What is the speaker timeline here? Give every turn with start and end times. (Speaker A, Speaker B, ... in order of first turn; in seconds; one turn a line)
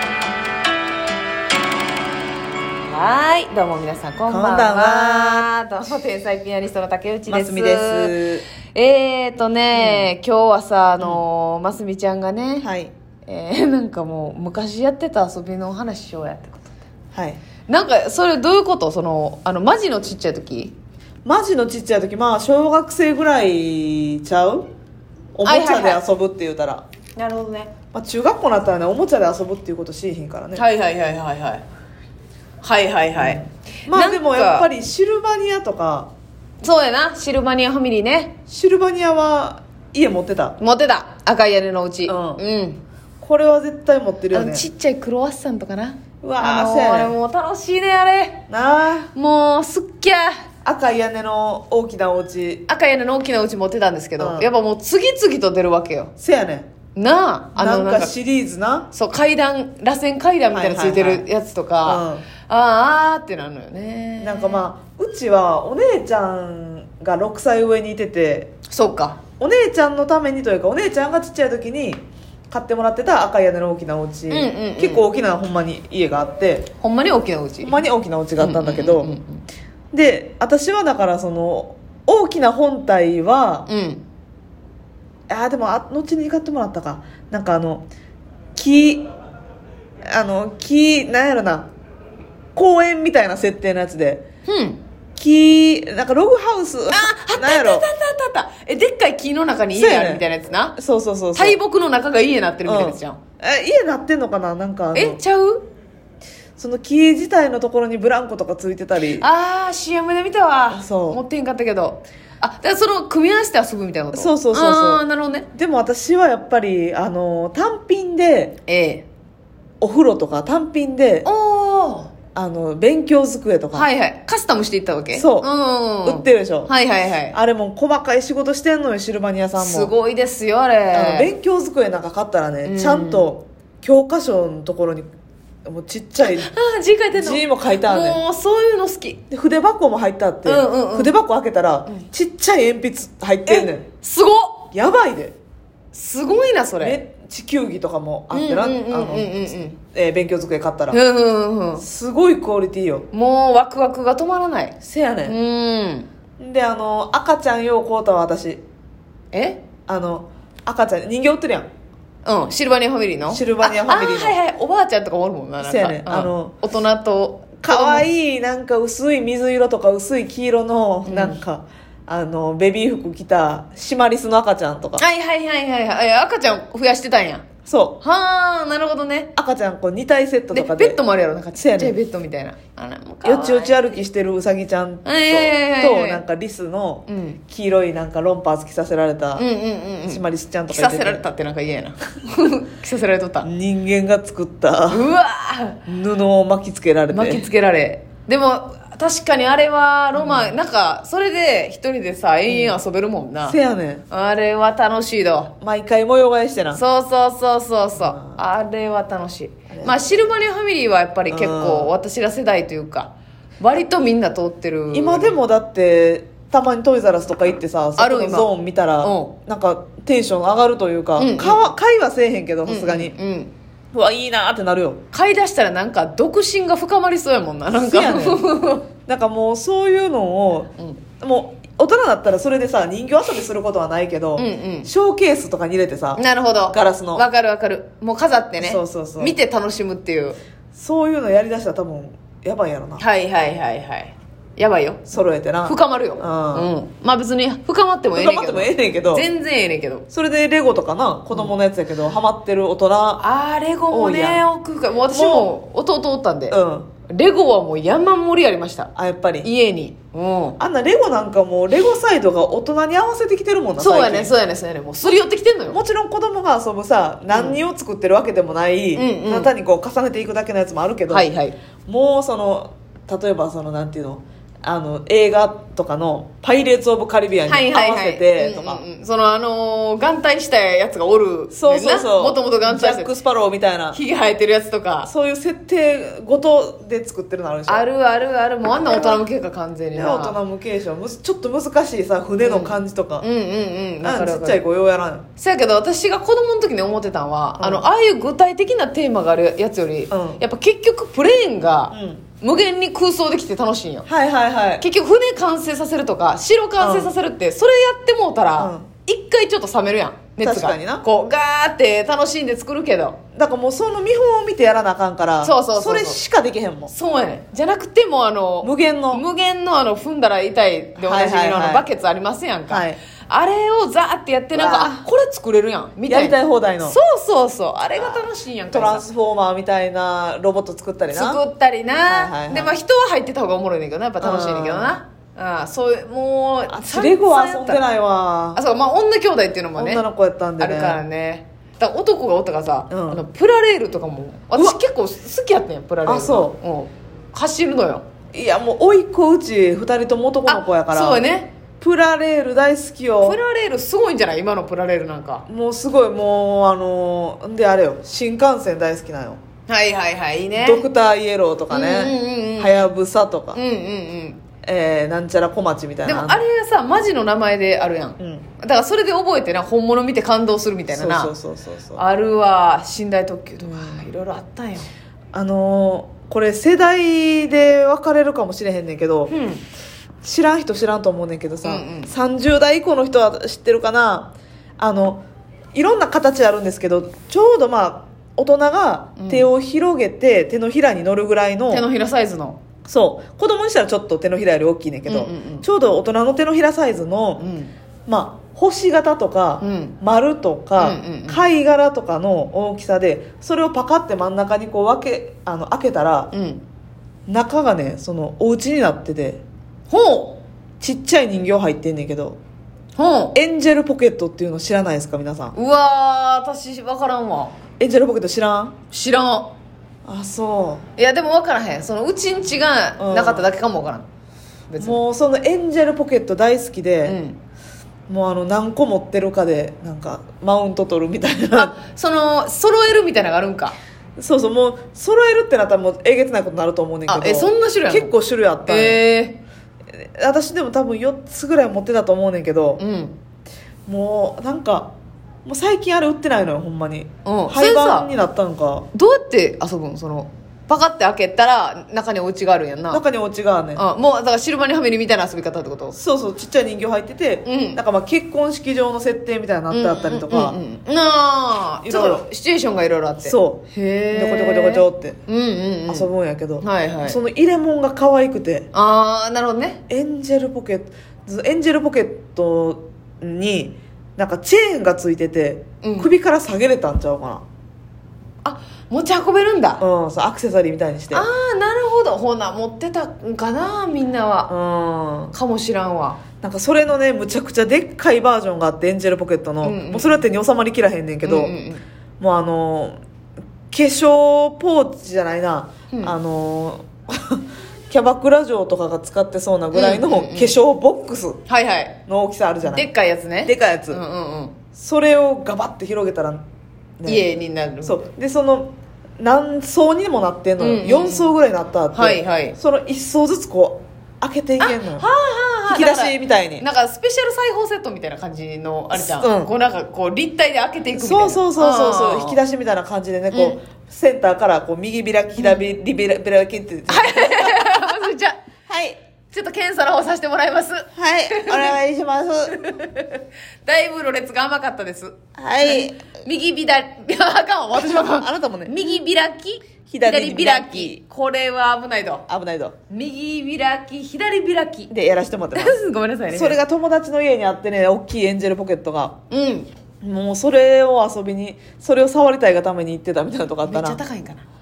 Speaker A: 2.8-12.7
Speaker B: 4.3-5.5
Speaker B: 7.3-8.4
Speaker B: 9.7-10.1
Speaker B: 12.6-12.9
Speaker A: 13.3-16.7
Speaker B: 17.1-17.4
Speaker A: 17.7-20.7
Speaker B: 21.2-24.7
Speaker B: 25.4-26.8
Speaker A: 25.4-26.0
Speaker A: 27.2-27.7
Speaker B: 27.9-30.6
Speaker A: 30.6-31.6
Speaker A: 32.6-34.7
Speaker B: 33.2-36.1
Speaker A: 36.6-38.4
Speaker B: 38.5-40.6
Speaker A: 40.6-42.8
Speaker B: 42.1-42.4
Speaker B: 43.2-44.7
Speaker A: 44.3-48.4
Speaker B: 46.2-47.1
Speaker B: 48.5-49.1
Speaker A: 49.1-50.4
Speaker B: 50.6-52.6
Speaker A: 52.7-56.1
Speaker B: 54.2-54.5
Speaker B: 56.2-56.7
Speaker A: 57.0-58.1
Speaker B: 57.5-58.9
Speaker A: 58.9-64.7
Speaker B: 60.5-61.3
Speaker B: 61.9-62.3
Speaker B: 64.2-68.5
Speaker A: 68.7-69.2
Speaker B: 69.4-76.7
Speaker A: 74.3-75.1
Speaker A: 76.8-77.8
Speaker B: 77.6-79.1
Speaker A: 78.4-79.4
Speaker B: 79.9-83.7
Speaker A: 83.7-84.0
Speaker B: 85.3-87.9
Speaker B: 88.6-89.1
Speaker B: 90.1-91.7
Speaker B: 92.6-94.2
Speaker A: 94.5-94.8
Speaker B: 95.2-97.9
Speaker A: 96.9-100.8
Speaker B: 99.7-101.6
Speaker A: 101.3-103.2
Speaker B: 102.7-105.2
Speaker A: 104.9-105.7
Speaker B: 106.6-109.3
Speaker A: 109.2-115.5
Speaker B: 110.7-111.2
Speaker B: 114.1-118.6
Speaker A: 118.7-119.0
Speaker B: 119.8-121.3
Speaker A: 121.2-122.1
Speaker B: 122.3-123.9
Speaker A: 123.7-127.4
Speaker B: 125.1-125.5
Speaker B: 126.0-126.7
Speaker B: 127.3-129.9
Speaker A: 129.6-131.3
Speaker B: 130.9-135.1
Speaker A: 132.7-133.3
Speaker B: 135.7-136.5
Speaker A: 136.2-139.2
Speaker B: 137.1-138.2
Speaker B: 139.3-143.9
Speaker A: 140.4-141.1
Speaker A: 143.5-144.7
Speaker B: 144.7-145.3
Speaker A: 145.9-147.0
Speaker B: 146.8-151.0
Speaker A: 148.3-149.8
Speaker A: 150.9-151.8
Speaker B: 151.8-153.1
Speaker A: 153.1-156.1
Speaker B: 154.8-155.4
Speaker B: 156.4-158.6
Speaker A: 159.3-159.6
Speaker B: 159.9-161.7
Speaker A: 162.2-168.1
Speaker B: 163.3-164.4
Speaker B: 165.6-166.6
Speaker B: 167.6-175.1
Speaker A: 171.1-171.4
Speaker A: 175.0-177.4
Speaker B: 177.7-178.0
Speaker A: 178.0-179.3
Speaker B: 179.4-181.0
Speaker A: 180.5-183.9
Speaker B: 181.6-181.9
Speaker B: 183.2-189.5
Speaker A: 185.1-186.2
Speaker A: 187.1-187.4
Speaker A: 189.4-193.5
Speaker B: 190.1-191.2
Speaker B: 193.4-195.1
Speaker A: 194.9-195.8
Speaker B: 195.9-197.5
Speaker A: 197.1-203.6
Speaker B: 200.2-200.6
Speaker B: 202.5-202.8
Speaker B: 203.4-204.0
Speaker A: 204.1-205.5
Speaker B: 205.6-206.8
Speaker A: 206.7-215.4
Speaker B: 208.0-208.4
Speaker B: 209.7-210.0
Speaker B: 211.3-211.9
Speaker B: 214.9-223.2
Speaker A: 218.0-219.3
Speaker A: 221.2-221.7
Speaker A: 222.7-223.5
Speaker B: 223.9-225.0
Speaker A: 225.1-228.9
Speaker B: 227.7-228.5
Speaker B: 229.1-237.2
Speaker A: 234.4-234.9
Speaker A: 236.2-240.4
Speaker B: 238.6-239.4
Speaker B: 240.8-243.0
Speaker A: 243.0-250.1
Speaker B: 245.1-246.7
Speaker B: 248.1-249.3
Speaker B: 250.1-253.2
Speaker A: 253.2-258.9
Speaker B: 253.9-254.5
Speaker B: 255.1-255.5
Speaker B: 256.5-256.9
Speaker B: 259.0-259.5
Speaker A: 259.4-260.6
Speaker B: 260.6-264.3
Speaker A: 263.8-265.8
Speaker B: 265.7-271.3
Speaker A: 267.3-267.6
Speaker A: 268.9-269.5
Speaker A: 271.1-271.6
Speaker B: 271.9-278.8
Speaker A: 277.5-283.1
Speaker B: 281.5-284.0
Speaker A: 283.9-285.1
Speaker B: 285.0-287.9
Speaker A: 287.7-290.4
Speaker B: 288.8-289.2
Speaker B: 289.9-293.3
Speaker A: 292.4-294.6
Speaker B: 294.0-295.3
Speaker A: 295.4-304.1
Speaker B: 297.6-297.9
Speaker B: 300.1-300.4
Speaker B: 301.9-302.3
Speaker B: 304.1-304.8
Speaker A: 304.8-313.2
Speaker B: 306.8-307.1
Speaker B: 308.6-308.9
Speaker B: 310.4-311.1
Speaker B: 313.4-316.9
Speaker A: 315.4-316.2
Speaker A: 316.9-329.1
Speaker B: 318.6-319.2
Speaker B: 321.0-321.9
Speaker B: 322.7-323.0
Speaker B: 324.5-325.1
Speaker B: 326.1-327.0
Speaker B: 328.0-331.4
Speaker A: 331.1-337.8
Speaker B: 332.1-332.8
Speaker B: 334.2-335.0
Speaker B: 336.7-338.6
Speaker A: 338.6-340.0
Speaker B: 339.8-341.0
Speaker A: 340.6-348.0
Speaker B: 342.9-343.2
Speaker B: 346.1-346.6
Speaker B: 348.3-351.2
Speaker A: 350.5-351.5
Speaker B: 351.8-353.4
Speaker A: 353.2-355.4
Speaker B: 355.5-359.4
Speaker A: 359.7-360.9
Speaker B: 360.6-363.6
Speaker A: 361.7-362.9
Speaker A: 363.5-364.4
Speaker B: 364.6-366.4
Speaker A: 366.1-371.3
Speaker B: 368.2-368.5
Speaker B: 370.9-372.0
Speaker A: 372.0-374.9
Speaker B: 373.6-374.1
Speaker B: 375.3-379.4
Speaker A: 379.3-379.6
Speaker B: 380.2-391.9
Speaker A: 381.6-382.1
Speaker A: 389.2-389.5
Speaker A: 391.7-392.6
Speaker B: 392.9-397.5
Speaker A: 395.1-395.7
Speaker A: 397.4-397.7
Speaker B: 398.1-406.3
Speaker A: 399.6-400.0
Speaker A: 400.8-401.4
Speaker A: 406.3-406.6
Speaker B: 407.3-409.4
Speaker A: 409.9-410.4
Speaker B: 410.8-412.4
Speaker A: 413.0-413.4
Speaker B: 413.4-415.6
Speaker A: 415.5-417.6
Speaker B: 417.8-418.8
Speaker A: 418.9-419.6
Speaker B: 420.1-420.9
Speaker A: 421.0-424.1
Speaker B: 423.0-423.5
Speaker A: 424.7-425.0
Speaker B: 424.8-427.2
Speaker A: 427.1-427.4
Speaker B: 428.1-431.8
Speaker A: 431.5-433.8
Speaker B: 434.2-439.0
Speaker A: 437.1-438.1
Speaker A: 438.7-439.4
Speaker B: 439.9-442.8
Speaker A: 442.8-443.2
Speaker B: 443.9-444.9
Speaker B: 445.4-448.9
Speaker A: 447.2-448.1
Speaker A: 448.9-453.0
Speaker B: 452.9-453.8
Speaker A: 453.8-456.0
Speaker B: 455.9-460.6
Speaker A: 457.4-457.8
Speaker A: 459.7-466.1
Speaker B: 461.9-462.2
Speaker B: 463.2-465.2
Speaker B: 465.9-468.7
Speaker A: 466.6-467.2
Speaker A: 468.7-469.8
Speaker B: 469.9-477.4
Speaker A: 475.8-476.1
Speaker A: 478.4-479.8
Speaker B: 479.8-481.3
Speaker A: 481.1-484.5
Speaker B: 484.5-485.4
Speaker A: 485.3-486.2
Speaker B: 486.4-491.6
Speaker A: 489.6-490.3
Speaker A: 491.2-491.8
Speaker B: 492.2-493.0
Speaker B: 493.7-501.4
Speaker A: 499.7-500.6
Speaker A: 501.5-502.0
Speaker B: 502.1-502.9
Speaker A: 502.6-504.6
Speaker B: 503.4-504.0
Speaker B: 504.8-506.4
Speaker B: 507.0-507.3
Speaker A: 507.1-508.0
Speaker B: 507.8-515.1
Speaker A: 510.6-511.3
Speaker A: 511.9-512.6
Speaker A: 514.6-522.4
Speaker B: 515.7-516.6
Speaker B: 519.0-519.5
Speaker B: 520.9-528.0
Speaker A: 523.3-523.6
Speaker A: 525.4-525.6
Speaker A: 526.9-528.4
Speaker B: 528.7-529.0
Speaker A: 529.3-531.8
Speaker B: 531.0-532.6
Speaker A: 532.5-542.2
Speaker B: 535.4-536.0
Speaker B: 537.7-538.9
Speaker B: 539.9-541.0
Speaker B: 542.3-542.8
Speaker A: 542.9-544.9
Speaker B: 544.9-545.8
Speaker A: 545.5-546.6
Speaker B: 546.3-549.2
Speaker A: 549.3-549.7
Speaker B: 550.0-554.0
Speaker A: 553.6-554.4